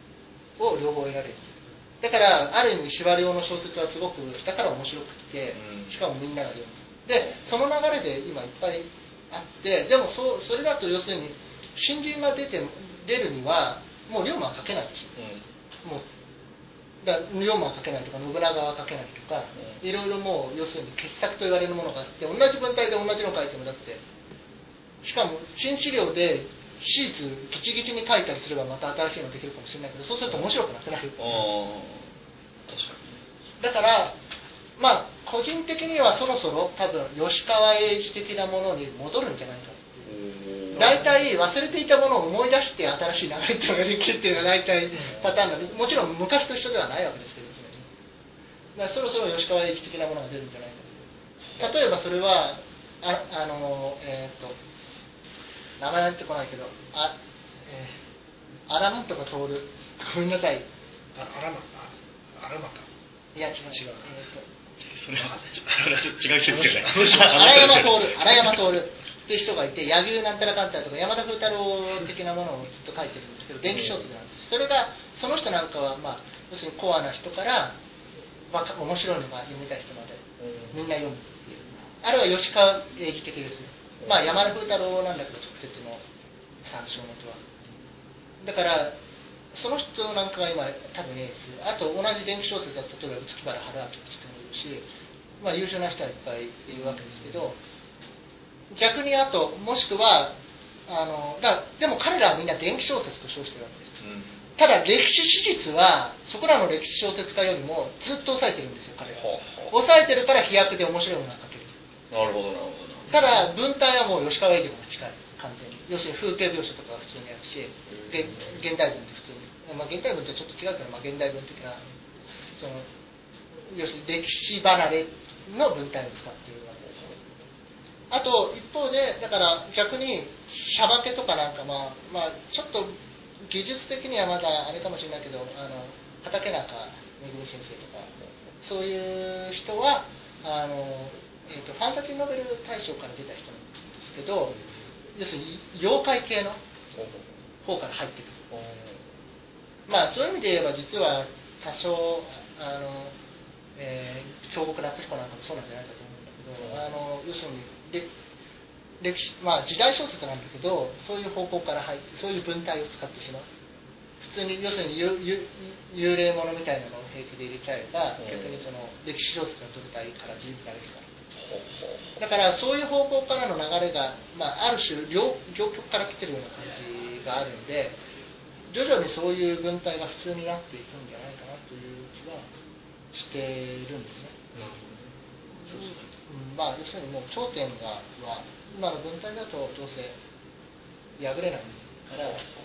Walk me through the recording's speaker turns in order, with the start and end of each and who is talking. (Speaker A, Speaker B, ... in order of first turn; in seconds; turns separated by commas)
Speaker A: 0.6-15.2, Speaker B: 5.5-5.9, Speaker B: 15.2-15.5, Speaker A: 17.0-24.0, Speaker A: 25.0-31.2, Speaker B: 31.2-32.1, Speaker B: 32.7-33.2, Speaker A: 33.6-34.2, Speaker A: 34.8-40.1, Speaker B: 40.0-41.0, Speaker A: 40.7-47.9, Speaker B: 45.0-45.4, Speaker A: 48.7-54.6, Speaker A: 55.8-58.0, Speaker A: 58.7-60.7, Speaker C: 61.1-62.9, Speaker A: 63.3-64.5, Speaker C: 63.7-64.0, Speaker D: 64.9-68.4, Speaker C: 65.2-65.9, Speaker C: 66.4-67.8, Speaker A: 67.1-77.8, Speaker B: 73.6-74.1, Speaker A: 78.5-86.0, Speaker B: 80.4-80.8, Speaker B: 84.0-84.3, Speaker A: 86.6-87.4, Speaker A: 88.4-89.0, Speaker A: 89.5-94.8, Speaker A: 95.4-97.6, Speaker B: 96.7-97.4, Speaker A: 98.7-100.3, Speaker A: 100.9-103.9, Speaker B: 104.0-104.4, Speaker A: 104.6-111.7, Speaker B: 109.2-109.7, Speaker B: 112.1-113.2, Speaker A: 113.1-121.8, Speaker B: 117.9-118.5, Speaker A: 122.5-122.9, Speaker A: 123.7-127.2, Speaker A: 128.1-144.6, Speaker B: 144.5-144.8, Speaker A: 145.1-146.6, Speaker B: 146.9-147.3, Speaker A: 147.6-148.5, Speaker B: 148.5-149.0, Speaker A: 149.9-153.1, Speaker A: 153.8-158.1, Speaker A: 159.0-163.5, Speaker A: 164.2-171.1, Speaker B: 168.2-168.6, Speaker B: 171.3-172.2, Speaker A: 172.2-178.0, Speaker A: 178.7-182.5, Speaker A: 183.1-184.4, Speaker B: 184.5-185.1, Speaker A: 185.7-190.2, Speaker A: 191.2-192.4